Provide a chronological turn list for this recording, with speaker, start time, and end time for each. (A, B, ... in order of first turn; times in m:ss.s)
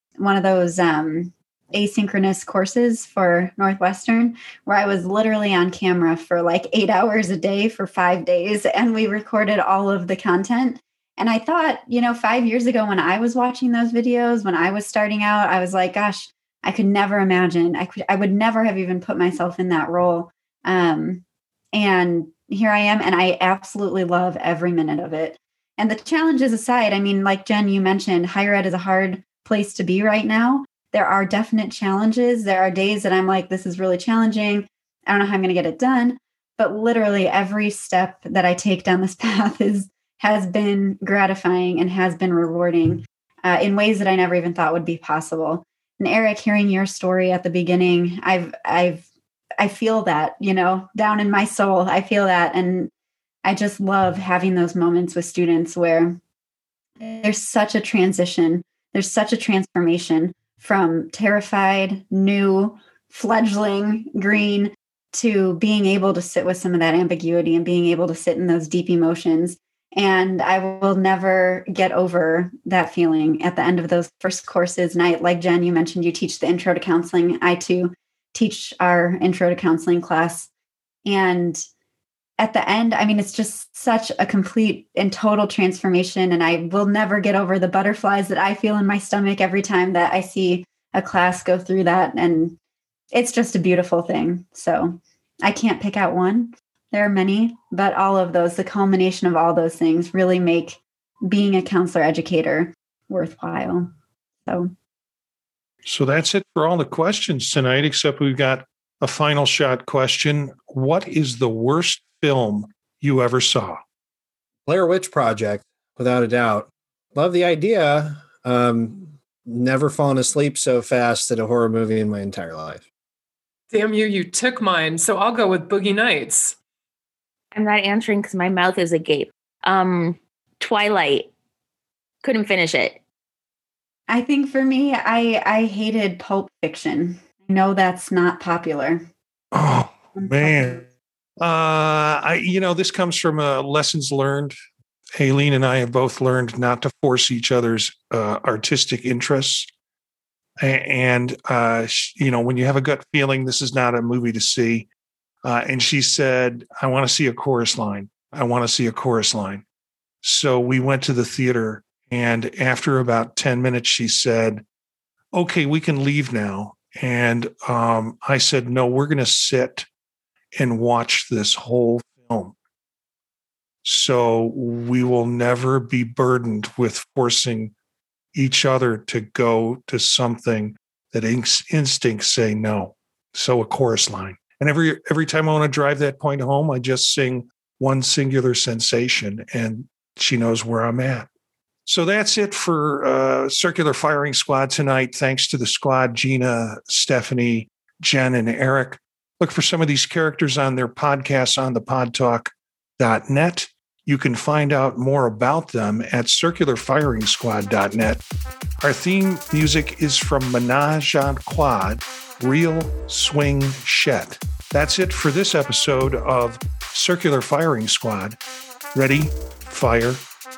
0:00.2-0:49.0 A
0:49.6-0:52.9 A
0:53.4-0:56.2 A
0:57.0-1:20.5 A
1:21.0-1:21.6 A
1:22.4-1:32.6 A
1:33.1-1:43.9 A
1:44.4-1:44.7 A
1:45.8-1:53.8 B
1:54.6-2:02.8 C
2:03.7-2:06.6 D
2:07.5-2:11.3 E
2:12.2-2:13.0 E
2:14.1-2:19.0 A
2:19.5-2:20.8 B
2:20.2-2:20.8 A
2:21.4-2:24.5 B
2:25.2-2:29.7 B
2:30.6-2:34.9 B
2:35.4-2:39.6 B
2:40.2-2:44.6 B
2:45.3-2:49.9 B
2:50.6-2:52.5 B
2:53.8-2:57.7 B
2:58.3-3:11.3 B
3:11.8-3:28.2 B
3:28.8-3:38.4 B
3:38.9-3:40.2 B